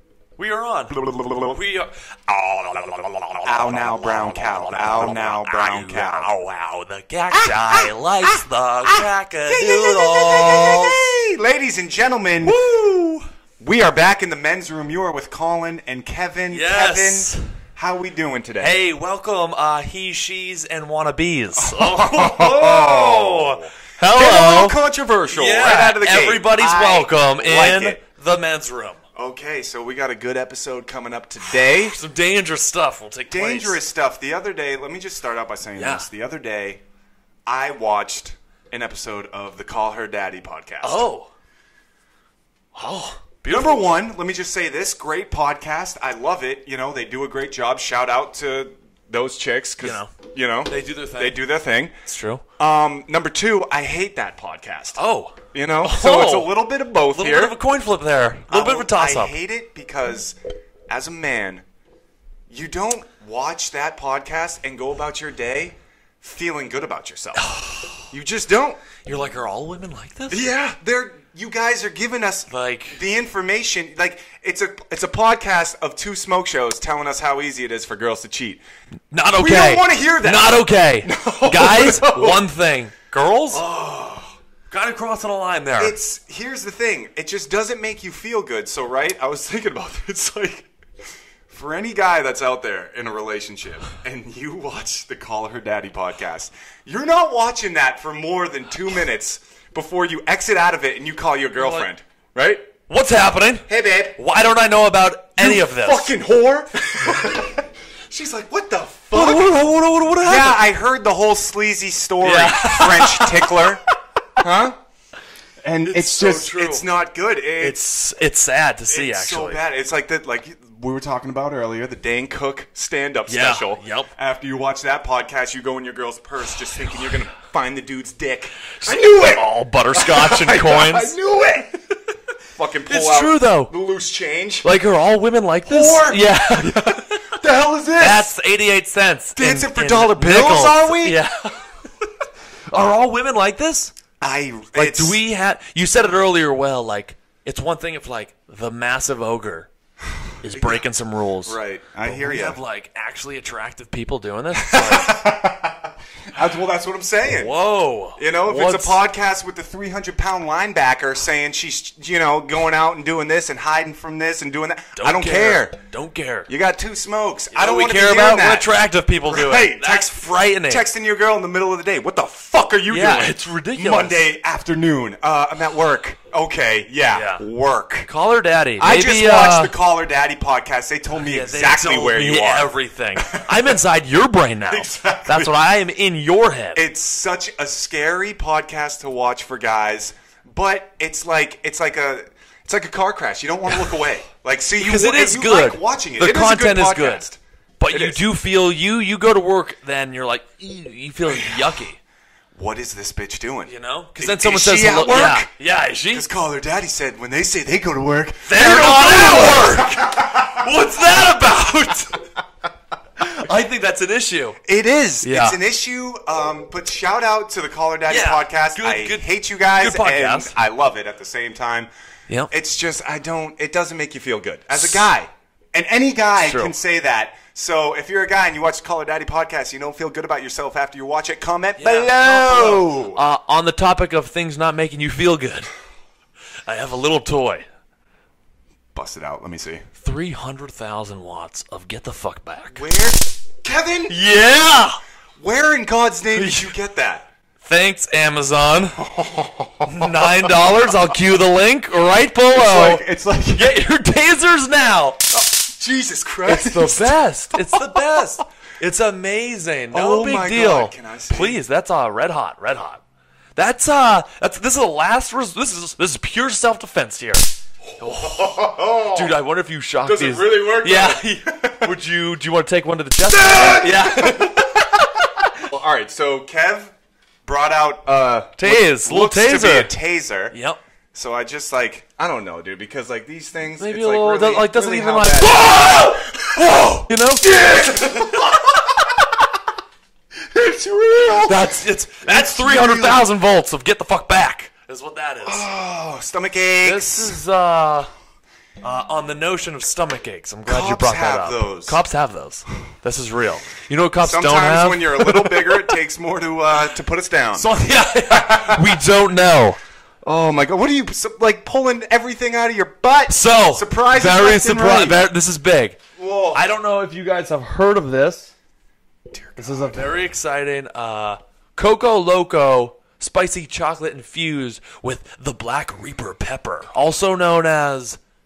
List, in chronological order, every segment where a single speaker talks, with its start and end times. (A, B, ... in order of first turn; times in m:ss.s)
0:00.4-0:11.1 A
0:00.9-0:01.6 B
0:03.4-0:06.3 B
0:07.3-0:12.6 B
0:12.4-0:13.3 A
0:13.6-0:18.8 B
0:16.5-0:17.5 A
0:18.6-0:29.0 A
0:21.6-0:28.0 B
0:29.2-0:32.0 B
0:31.5-0:33.8 A
0:33.3-0:36.8 B
0:35.8-0:36.1 A
0:37.5-0:41.1 B
0:40.8-0:41.3 A
0:42.8-0:44.0 A
0:43.4-0:52.0 B
0:49.8-0:50.1 A
0:50.7-0:51.4 A
0:52.1-0:52.4 A
0:52.6-0:55.0 B
0:55.0-0:56.6 A
0:55.5-0:57.6 B
0:57.1-0:59.4 A
0:58.5-1:00.4 B
1:00.9-1:01.6 B
1:02.5-1:07.5 B
1:07.4-1:08.1 A
1:08.1-1:08.8 B
1:09.0-1:10.5 A
1:10.3-1:18.6 B
1:12.5-1:13.0 A
1:19.1-1:23.6 A
1:19.3-1:22.5 B
1:23.5-1:24.4 B
1:24.7-1:26.0 A
1:25.8-1:30.7 B
1:31.5-1:42.8 B
1:41.5-1:41.9 A
1:42.9-1:46.2 A
1:43.7-1:44.2 B
1:45.4-1:49.6 B
1:49.1-1:50.6 A
1:50.2-1:53.8 B
1:52.2-1:53.8 A
1:54.4-1:54.8 B
1:55.6-1:57.8 B
1:55.8-1:56.9 A
1:57.6-1:59.6 A
1:58.9-2:11.8 B
2:03.3-2:04.1 A
2:08.8-2:11.2 A
2:12.5-2:14.8 B
2:12.8-2:13.8 A
2:14.6-2:17.4 A
2:15.6-2:18.3 B
2:18.0-2:22.1 A
2:19.4-2:21.2 B
2:22.7-2:23.9 A
2:24.2-2:25.2 B
2:24.7-2:29.7 A
2:30.4-2:35.3 A
2:30.4-2:30.9 B
2:31.4-2:32.6 B
2:34.5-2:37.5 B
2:37.2-2:39.0 A
2:38.2-2:45.8 B
2:45.0-2:46.5 A
2:46.5-2:48.7 B
2:47.5-2:50.9 A
2:49.2-2:58.1 B
2:52.9-2:54.3 A
2:57.1-2:57.5 A
2:58.0-2:59.8 A
2:58.8-3:03.8 B
3:01.1-3:06.9 A
3:04.7-3:05.6 B
3:06.8-3:17.4 B
3:13.7-3:14.1 A
3:14.8-3:17.3 A
3:17.8-3:22.0 A
3:17.9-3:18.2 B
3:21.2-3:21.8 B
3:22.5-3:25.5 B
3:23.7-3:26.3 A
3:26.1-3:30.6 B
3:28.4-3:32.2 A
3:33.2-3:34.6 A
3:34.6-3:41.9 B
3:35.2-3:35.6 A
3:38.1-3:40.6 A
3:42.5-3:53.2 B
3:44.7-3:45.1 A
3:46.4-3:46.8 A
3:51.8-3:55.7 A
3:56.6-3:57.7 A
3:58.9-3:59.8 B
4:00.0-4:02.9 A
4:02.7-4:04.2 B
4:04.1-4:05.0 A
4:05.4-4:07.3 B
4:06.3-4:06.8 A
4:07.6-4:09.0 A
4:09.0-4:10.9 B
4:09.8-4:15.3 A
4:12.5-4:13.8 B
4:15.3-4:18.4 B
4:16.4-4:23.0 A
4:19.9-4:21.6 B
4:23.6-4:34.9 A
4:27.9-4:29.4 B
4:30.0-4:32.0 B
4:33.3-4:34.9 B
4:35.6-4:36.9 B
4:37.4-4:40.6 B
4:38.6-4:40.0 A
4:40.5-4:40.8 A
4:41.1-4:48.9 B
4:43.8-4:47.5 A
4:50.4-4:53.3 B
4:51.4-4:55.7 A
4:55.4-4:57.4 B
4:56.8-4:58.1 A
4:58.8-5:05.9 A
5:00.7-5:02.0 B
5:04.2-5:07.7 B
5:07.5-5:09.8 A
5:08.3-5:09.0 B
5:10.2-5:15.3 B
5:13.3-5:16.0 A
5:16.2-5:16.7 B
5:16.5-5:18.5 A
5:19.3-5:20.1 B
5:19.6-5:28.2 A